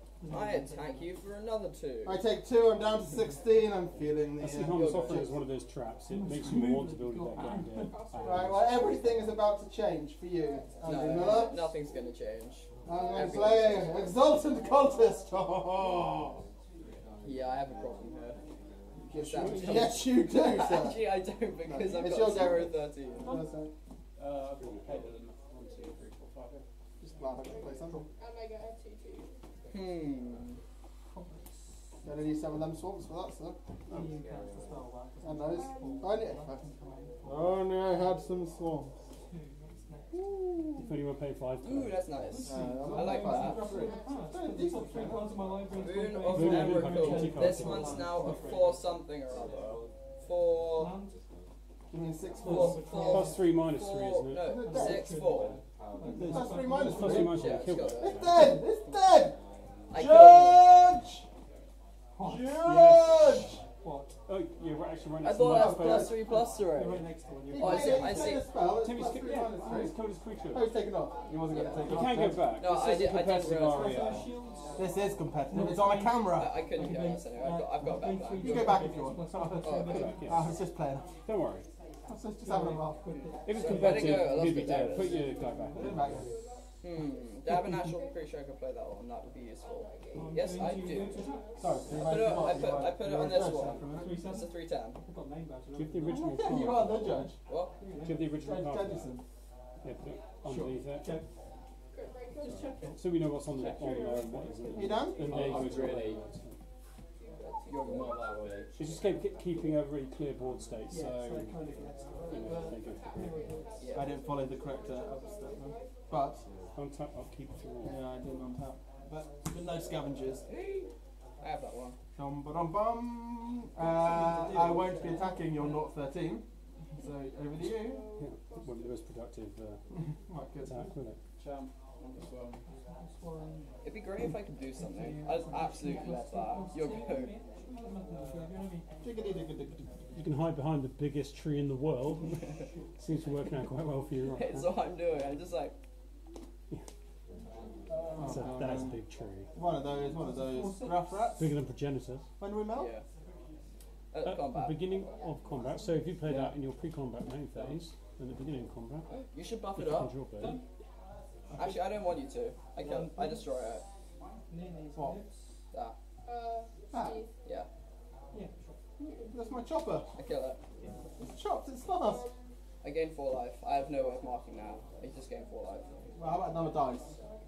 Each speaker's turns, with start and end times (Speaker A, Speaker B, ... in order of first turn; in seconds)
Speaker A: 0.2-1.1, 6.1-7.9, 31.1-31.8, 33.9-37.2, 39.1-40.2, 42.2-48.9, 50.6-51.2, 52.4-53.6, 54.6-57.7, 62.1-62.8, 63.8-64.2, 66.1-68.4, 73.6-74.9, 75.5-80.4, 82.4-86.6, 90.1-92.1, 93.9-96.7, 97.8-98.5, 100.9-101.2, 102.4-103.0, 103.8-106.0, 110.9-113.9, 123.9-125.9, 132.6-133.7, 134.8-138.9, 149.9-151.3, 160.4-160.6, 162.8-163.5, 164.5-165.5, 168.3-168.8
Speaker B: 0.3-2.2, 4.7-5.3, 10.8-14.0, 17.2-18.4, 19.1-23.4, 29.7-30.6, 41.6-43.7, 45.7-50.9, 52.4-55.6, 57.0-58.2, 59.9-60.6, 65.2-68.5, 71.5-74.1, 76.3-78.8, 79.6-80.2, 83.1-85.3, 86.8-91.3, 92.0-95.0, 97.5-97.7, 107.7-108.4, 113.8-114.2, 120.5-120.9, 121.4-122.0, 133.8-137.3, 144.3-145.7, 152.7-153.0, 154.1-155.2, 159.1-160.1, 161.6-163.8, 170.2-170.6, 172.8-175.8
Speaker C: 2.0-5.4, 6.3-6.8, 8.2-11.6, 12.8-16.4, 19.0-21.0, 21.6-23.7, 27.0-28.0, 32.0-34.2, 35.2-36.6, 37.2-38.9, 40.1-40.9, 42.4-45.3, 51.9-52.9, 54.4-55.1, 56.1-59.4, 60.0-61.2, 62.2-63.6, 65.4-66.2, 67.5-70.0, 70.5-72.5, 74.8-76.6, 78.4-81.1, 82.1-83.0, 85.7-86.3, 91.6-94.2, 96.1-97.3, 98.4-99.2, 100.4-100.8, 104.7-105.6, 113.9-116.4, 117.8-120.4, 122.2-126.4, 127.0-128.1, 129.9-130.9, 139.0-139.9, 148.2-149.0, 149.5-151.5, 152.4-152.9, 166.9-167.2, 169.0-170.1, 171.2-172.2, 176.2-177.1
Speaker D: 4.3-9.0, 19.3-20.1, 40.8-42.1, 46.3-48.3, 53.0-54.6, 56.1-58.6, 60.0-60.6, 62.5-63.6, 64.2-66.2, 68.8-70.8, 71.8-74.3, 75.5-76.1, 79.9-80.5, 81.2-81.7, 83.4-86.2, 95.7-97.3, 98.0-99.1, 99.8-101.1, 102.4-106.6, 108.8-111.6, 112.2-113.5, 116.8-118.0, 128.1-129.8, 130.6-131.2, 140.1-144.7, 148.2-149.5, 151.3-152.2, 154.2-159.1, 159.8-160.6
Speaker E: 7.7-8.6, 10.4-11.7, 12.9-14.1, 27.4-29.4, 35.5-36.2, 43.4-44.3, 84.9-86.7, 87.7-88.2, 89.6-92.7, 101.9-102.9, 104.7-106.1, 107.2-108.6, 112.3-116.0, 127.8-129.0, 166.2-167.3, 169.1-169.6, 171.9-172.5
Speaker F: 24.1-26.6, 34.1-34.8, 73.7-74.3, 103.5-106.2, 107.7-108.8, 131.4-132.6, 138.1-138.5, 147.4-148.1, 156.2-156.6, 157.5-157.8